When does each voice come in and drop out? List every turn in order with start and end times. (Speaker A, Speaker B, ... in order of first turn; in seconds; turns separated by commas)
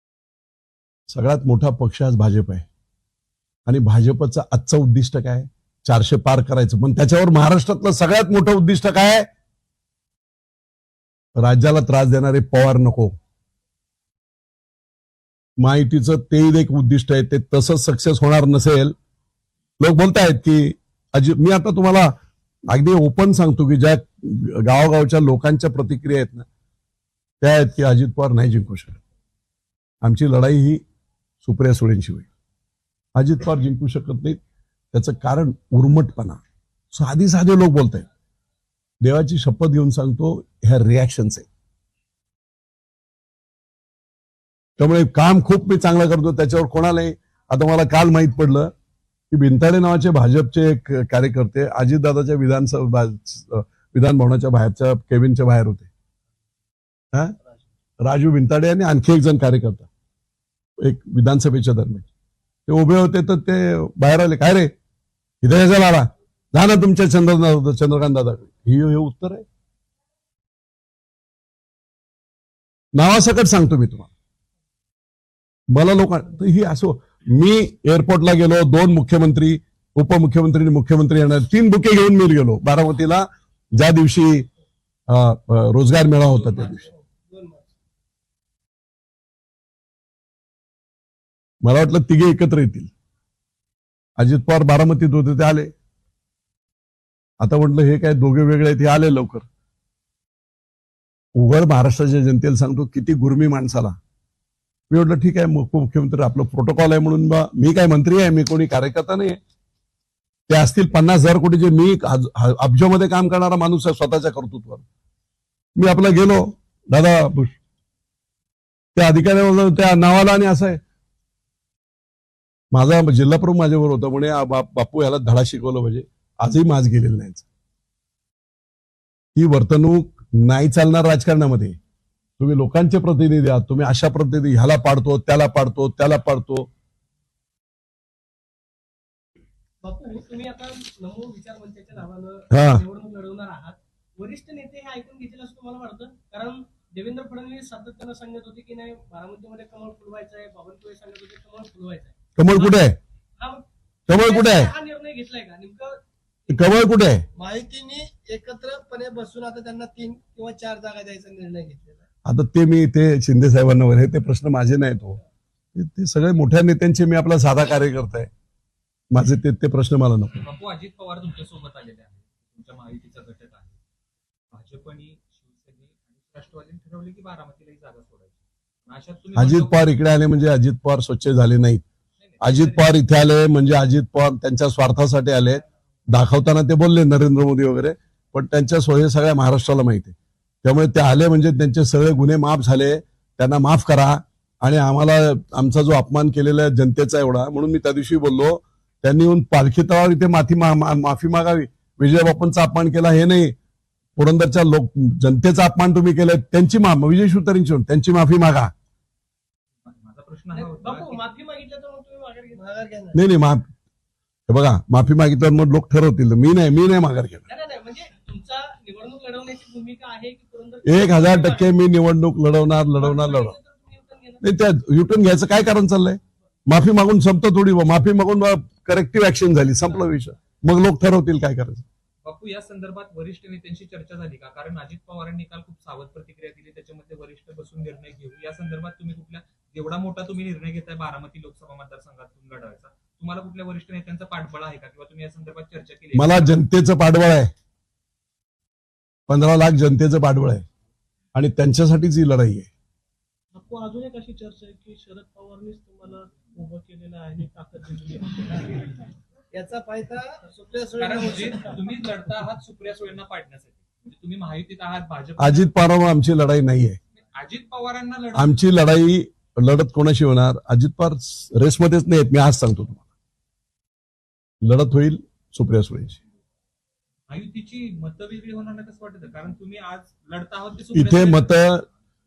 Speaker A: 1.1-2.7, Speaker A: 3.7-9.3, Speaker A: 11.4-13.1, Speaker A: 15.6-18.9, Speaker A: 19.8-22.1, Speaker A: 22.7-26.5, Speaker A: 27.4-29.0, Speaker A: 30.0-30.8, Speaker A: 31.4-32.3, Speaker A: 33.2-34.4, Speaker A: 34.9-36.4, Speaker A: 36.9-38.1, Speaker A: 39.0-41.5, Speaker A: 44.8-48.7, Speaker A: 49.3-55.9, Speaker A: 58.0-59.9, Speaker A: 60.8-62.1, Speaker A: 62.7-64.7, Speaker A: 65.4-69.5, Speaker A: 73.0-74.1, Speaker A: 75.7-84.5, Speaker A: 85.1-86.8, Speaker B: 86.4-87.7, Speaker A: 91.6-92.9, Speaker A: 94.2-95.7, Speaker A: 97.4-99.5, Speaker A: 101.4-104.0, Speaker A: 104.9-109.4, Speaker A: 110.5-114.8, Speaker A: 115.8-117.6, Speaker A: 119.0-120.8, Speaker A: 122.7-127.5, Speaker A: 129.4-131.8, Speaker A: 132.4-136.7, Speaker C: 139.8-152.8, Speaker A: 142.5-142.8, Speaker A: 152.4-153.0, Speaker C: 153.4-156.0, Speaker A: 154.1-154.7, Speaker A: 156.5-157.2, Speaker B: 157.4-162.0, Speaker A: 162.2-165.2, Speaker A: 165.8-168.3, Speaker A: 169.1-170.4, Speaker D: 170.4-173.8, Speaker D: 174.5-179.9, Speaker A: 179.4-181.8, Speaker D: 182.2-182.9, Speaker A: 182.4-203.5, Speaker A: 204.2-208.7, Speaker D: 209.8-211.2, Speaker C: 210.5-212.9, Speaker B: 212.6-213.2, Speaker A: 213.1-213.7, Speaker A: 214.5-217.4, Speaker C: 217.5-221.7, Speaker A: 220.9-223.6, Speaker C: 223.0-224.4, Speaker A: 224.4-231.8, Speaker D: 232.2-246.6, Speaker A: 246.1-247.5, Speaker A: 249.3-250.7, Speaker A: 251.3-252.7, Speaker C: 253.5-259.1, Speaker B: 259.5-261.8, Speaker D: 261.0-265.8, Speaker A: 265.4-267.0, Speaker D: 267.2-268.6, Speaker A: 268.4-273.0, Speaker A: 274.6-276.2, Speaker D: 277.3-281.9, Speaker A: 280.9-281.8